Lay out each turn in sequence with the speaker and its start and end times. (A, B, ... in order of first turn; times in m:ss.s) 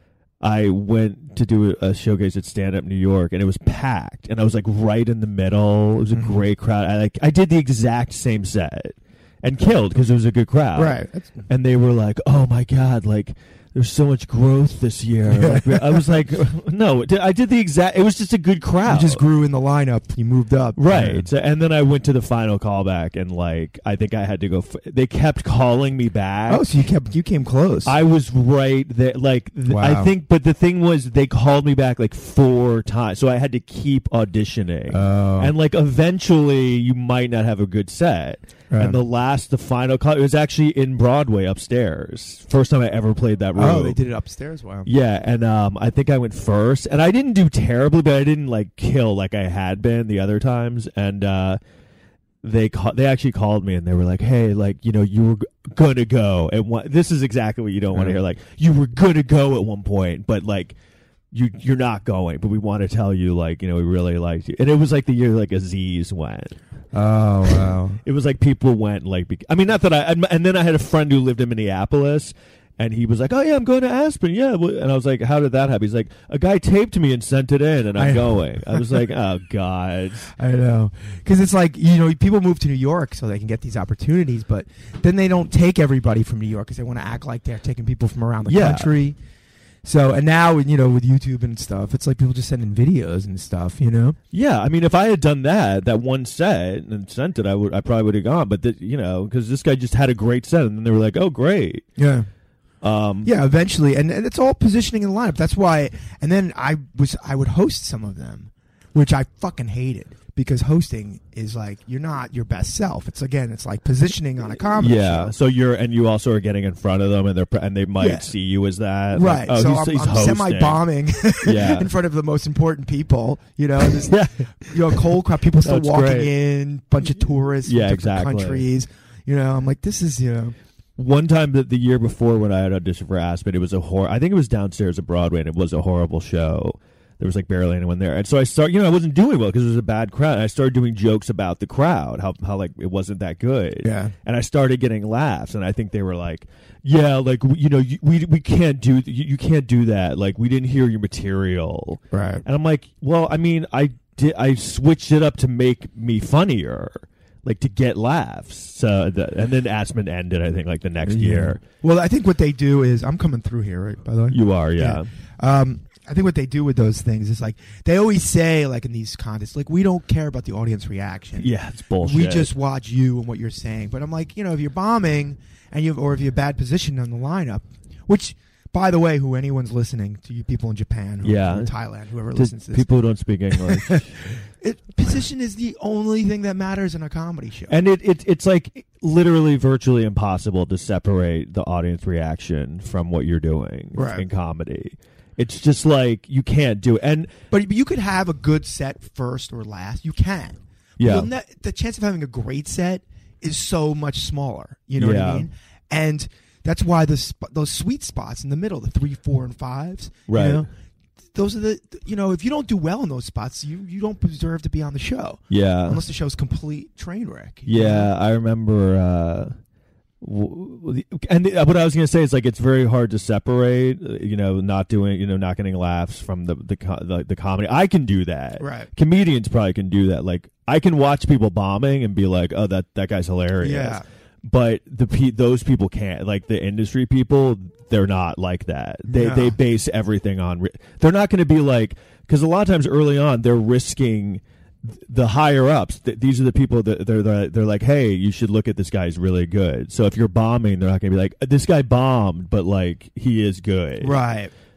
0:00.4-0:19.2 A
0:06.1-0:06.4 B
0:10.8-0:11.5 B
0:15.3-0:16.2 B
0:18.9-0:21.3 B
0:20.8-0:26.7 A
0:26.5-0:27.9 B
0:27.8-0:44.0 A
0:29.7-0:30.1 B
0:34.9-0:35.5 B
0:38.7-0:39.0 B
0:43.6-0:44.9 B
0:44.8-0:51.6 A
0:52.4-1:00.8 A
0:57.9-0:58.2 B
1:01.3-1:06.6 A
1:06.9-1:08.0 B
1:08.0-1:20.3 A
1:18.0-1:19.0 B
1:20.4-1:29.2 B
1:28.5-1:28.9 A
1:29.8-1:34.2 B
1:34.3-1:41.9 A
1:42.0-1:42.3 B
1:42.8-1:43.3 A
1:43.2-1:55.3 B
1:54.6-2:00.8 A
1:58.0-1:58.3 B
1:59.1-2:10.6 B
2:01.4-2:01.9 A
2:04.0-2:06.3 A
2:07.6-2:08.7 A
2:11.0-2:41.6 A
2:23.8-2:24.1 B
2:32.1-2:32.4 B
2:41.0-3:02.9 B
2:44.3-2:45.1 A
2:51.4-2:52.5 A
3:01.2-3:01.7 A
3:02.4-3:04.1 A
3:03.6-3:07.8 B
3:07.7-3:17.3 A
3:13.9-3:14.3 B
3:17.5-3:30.7 B
3:21.0-3:21.3 A
3:25.0-3:25.5 A
3:30.3-3:30.6 A
3:31.3-3:38.1 B
3:35.5-3:36.0 A
3:37.7-3:39.6 A
3:40.2-4:14.3 A
3:48.6-3:48.9 B
3:53.6-3:54.0 B
3:59.1-3:59.6 B
4:14.0-4:14.5 B